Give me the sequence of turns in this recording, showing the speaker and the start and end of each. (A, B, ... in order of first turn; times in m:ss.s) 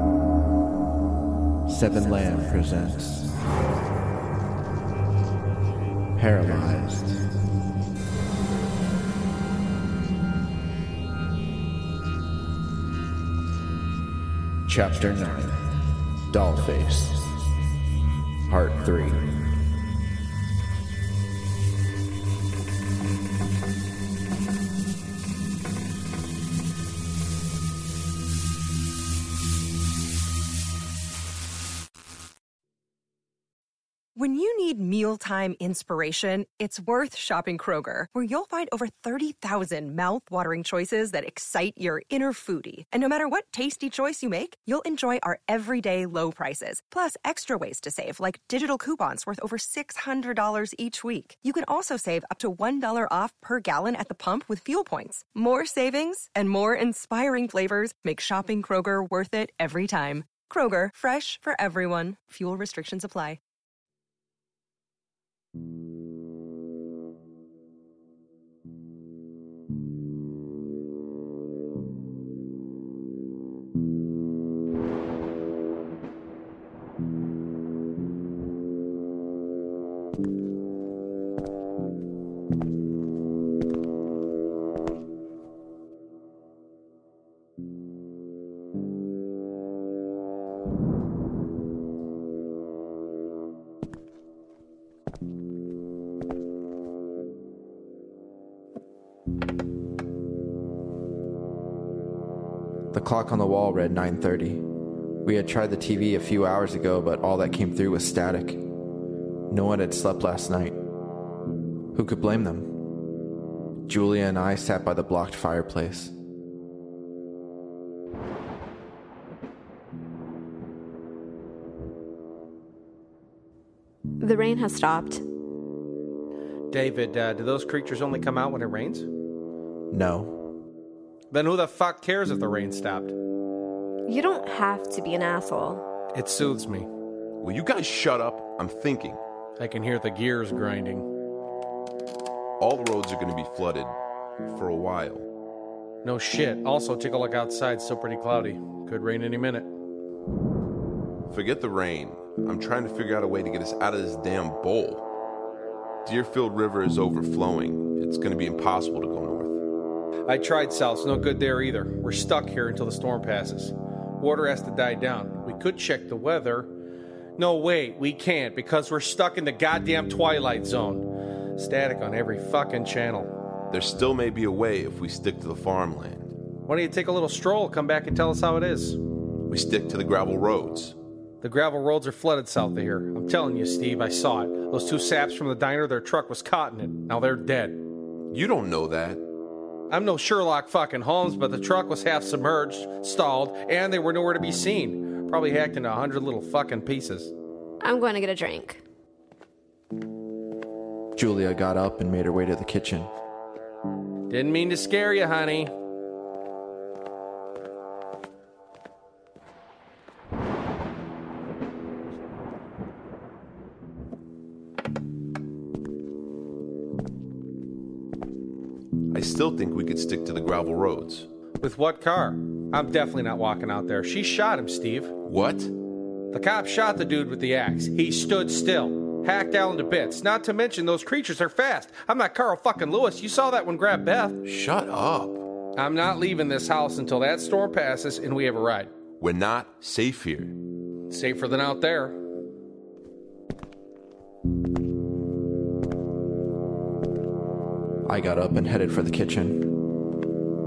0:01.7-0:03.4 A
0:06.2-0:07.2 A
0:14.7-0:17.3 A
0:18.5-0:19.4 A
0:34.2-1:03.4 B
1:42.9-1:44.7 A
1:45.2-1:48.7 A
1:49.5-1:50.8 A
1:51.9-1:52.8 A
1:53.9-1:56.1 A
2:04.2-2:05.2 C
2:06.7-2:09.1 D
2:09.9-2:10.4 A
2:11.3-2:13.1 D
2:14.1-2:15.8 C
2:16.1-2:16.9 D
2:17.4-2:19.2 E
2:19.6-2:21.1 D
2:22.6-2:25.3 E
2:26.0-2:29.7 D
2:31.3-2:35.0 E
2:36.0-2:39.6 E
2:40.3-2:46.7 D
2:47.4-2:53.3 D
2:53.7-2:56.3 E
2:56.7-2:59.0 D
2:59.5-3:01.0 E
3:01.4-3:07.8 D
3:08.3-3:09.2 E
3:09.9-3:17.3 D
3:17.8-3:18.8 C
3:21.2-3:23.1 A
3:24.3-3:25.7 D
3:39.1-3:41.3 E
3:41.6-3:45.1 D
3:45.2-3:45.7 E
3:46.3-3:54.4 D
3:54.4-3:55.4 E
3:55.8-3:58.9 D
3:59.2-4:00.5 E
4:01.1-4:02.2 D
4:08.1-4:09.7 A